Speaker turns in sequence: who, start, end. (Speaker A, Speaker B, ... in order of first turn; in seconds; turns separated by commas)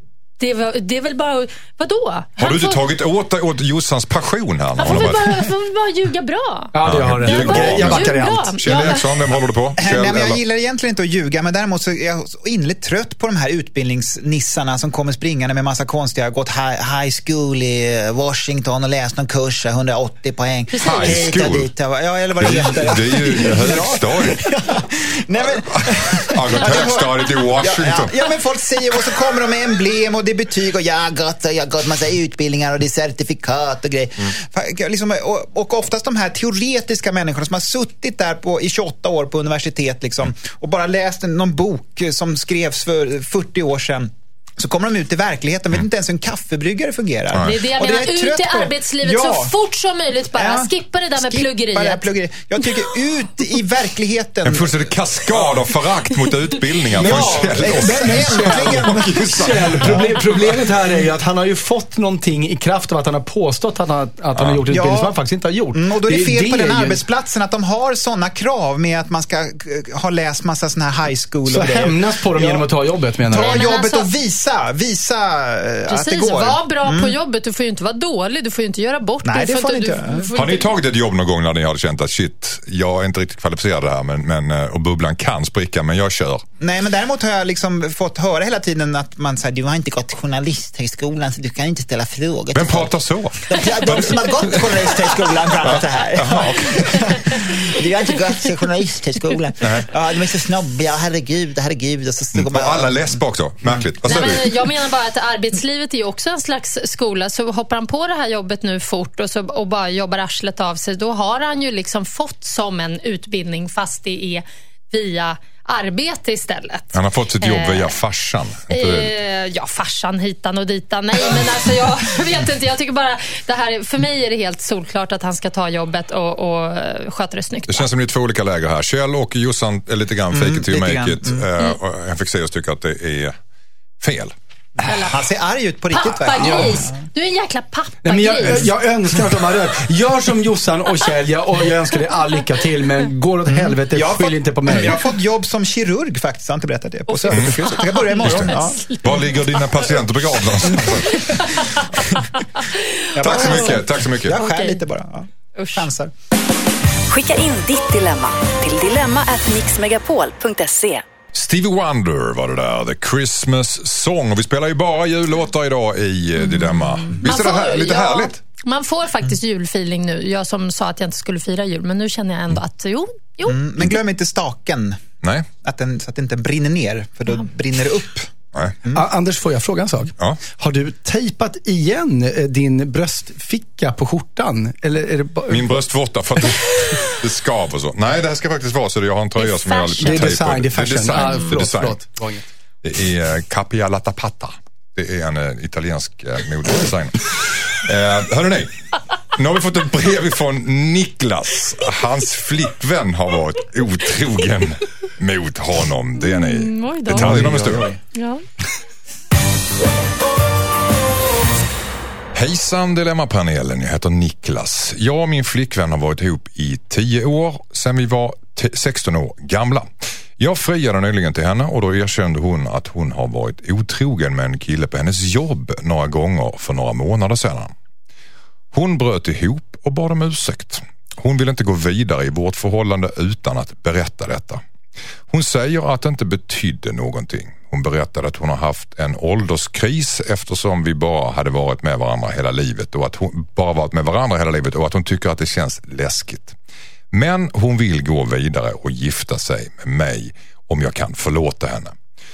Speaker A: 0.4-2.8, Speaker B: 2.4-5.5, Speaker A: 4.8-6.7, Speaker C: 6.7-8.6, Speaker B: 6.8-10.4, Speaker A: 7.2-9.3, Speaker D: 9.8-49.5, Speaker A: 20.7-21.4, Speaker B: 20.8-21.7, Speaker B: 22.4-24.4, Speaker B: 25.7-28.1, Speaker A: 26.6-27.0, Speaker B: 47.3-47.5, Speaker A: 47.4-52.1, Speaker D: 50.3-55.6, Speaker B: 54.4-60.6, Speaker C: 56.9-67.0, Speaker D: 57.0-60.0, Speaker B: 64.3-64.6, Speaker D: 64.7-65.1, Speaker D: 65.7-72.7, Speaker C: 71.5-73.7, Speaker D: 73.2-77.1, Speaker A: 73.3-74.1, Speaker A: 75.9-80.7, Speaker D: 79.2-80.3, Speaker B: 80.3-86.4, Speaker D: 86.6-103.8, Speaker B: 92.5-97.2, Speaker B: 99.6-99.9, Speaker B: 102.3-104.5, Speaker A: 104.0-117.9, Speaker B: 116.9-119.1, Speaker A: 118.7-127.9, Speaker B: 127.7-133.4, Speaker D: 130.3-131.4, Speaker B: 134.0-134.3, Speaker A: 134.8-135.2, Speaker D: 135.1-137.0, Speaker A: 135.9-138.7, Speaker C: 136.3-136.9, Speaker C: 138.0-145.0, Speaker D: 143.5-148.9, Speaker A: 147.1-149.6, Speaker B: 147.3-147.6, Speaker B: 148.2-148.5, Speaker B: 149.0-151.6, Speaker A: 150.8-153.8, Speaker D: 153.1-156.1, Speaker B: 153.2-154.4, Speaker A: 154.3-154.8, Speaker A: 155.5-155.9, Speaker E: 157.1-161.0, Speaker B: 161.3-168.4, Speaker A: 167.2-173.6, Speaker D: 173.4-175.0, Speaker B: 175.2-175.5, Speaker D: 175.6-178.3, Speaker C: 178.9-185.8, Speaker B: 185.5-192.0, Speaker A: 189.3-190.3, Speaker C: 190.0-192.4, Speaker A: 191.2-191.5, Speaker B: 192.8-198.8, Speaker B: 199.3-207.9, Speaker A: 206.2-207.5, Speaker D: 207.1-208.0, Speaker A: 208.1-208.4, Speaker B: 212.3-227.7, Speaker B: 228.7-234.6, Speaker B: 235.3-246.6, Speaker B: 247.1-251.9